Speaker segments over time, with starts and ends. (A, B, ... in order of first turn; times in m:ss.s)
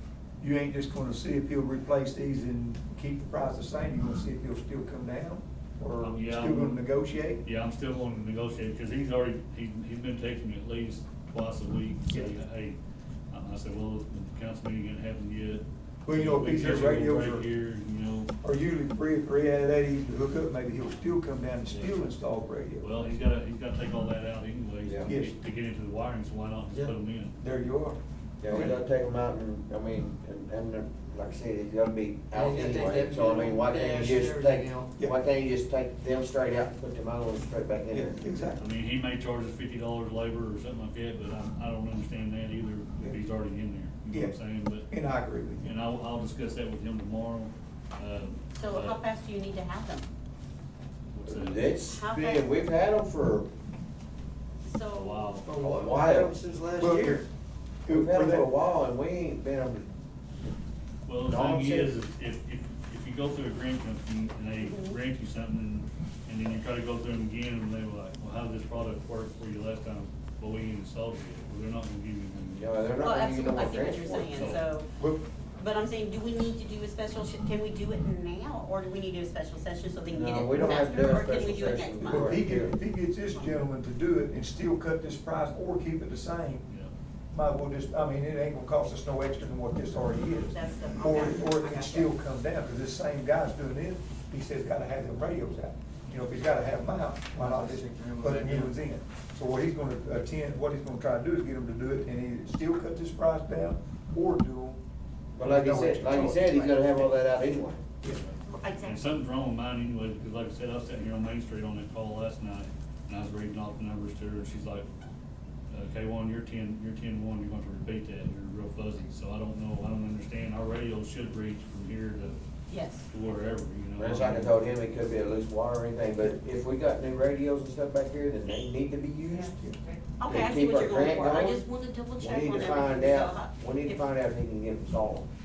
0:00.4-0:07.4 A
0:06.0-0:06.8 B
0:07.4-0:12.8 B
0:13.3-0:18.3 B
0:16.0-0:17.5 A
0:18.4-0:23.1 A
0:21.7-0:22.0 B
0:22.8-0:27.3 B
0:24.8-0:25.1 C
0:25.0-0:25.4 A
0:27.4-0:28.8 A
0:28.4-0:38.2 C
0:32.3-0:34.9 D
0:37.9-0:38.7 A
0:38.6-0:44.9 B
0:44.1-0:45.8 A
0:45.6-0:49.0 B
0:48.6-0:50.0 E
0:51.1-0:51.7 B
0:51.3-0:53.5 C
0:51.9-0:52.4 E
0:54.6-0:55.4 E
0:54.9-0:55.5 B
0:55.4-0:57.3 D
0:55.6-0:56.4 C
0:56.8-0:57.2 A
0:57.8-0:58.5 A
0:57.9-1:00.5 C
1:01.1-1:12.8 B
1:01.2-1:01.9 C
1:04.6-1:05.0 E
1:12.5-1:14.6 C
1:13.0-1:14.9 E
1:14.3-1:14.6 B
1:15.6-1:22.5 E
1:20.1-1:22.7 C
1:22.0-1:26.7 A
1:23.3-1:23.6 E
1:27.3-1:44.8 A
1:30.5-1:32.1 E
1:37.4-1:38.7 D
1:45.4-1:47.9 C
1:45.4-1:47.0 A
1:48.5-1:49.1 E
1:48.8-1:54.9 B
1:55.7-2:02.4 B
2:02.7-2:03.1 E
2:03.1-2:04.5 B
2:04.0-2:09.6 C
2:09.8-2:14.0 E
2:10.3-2:11.6 C
2:12.2-2:15.3 C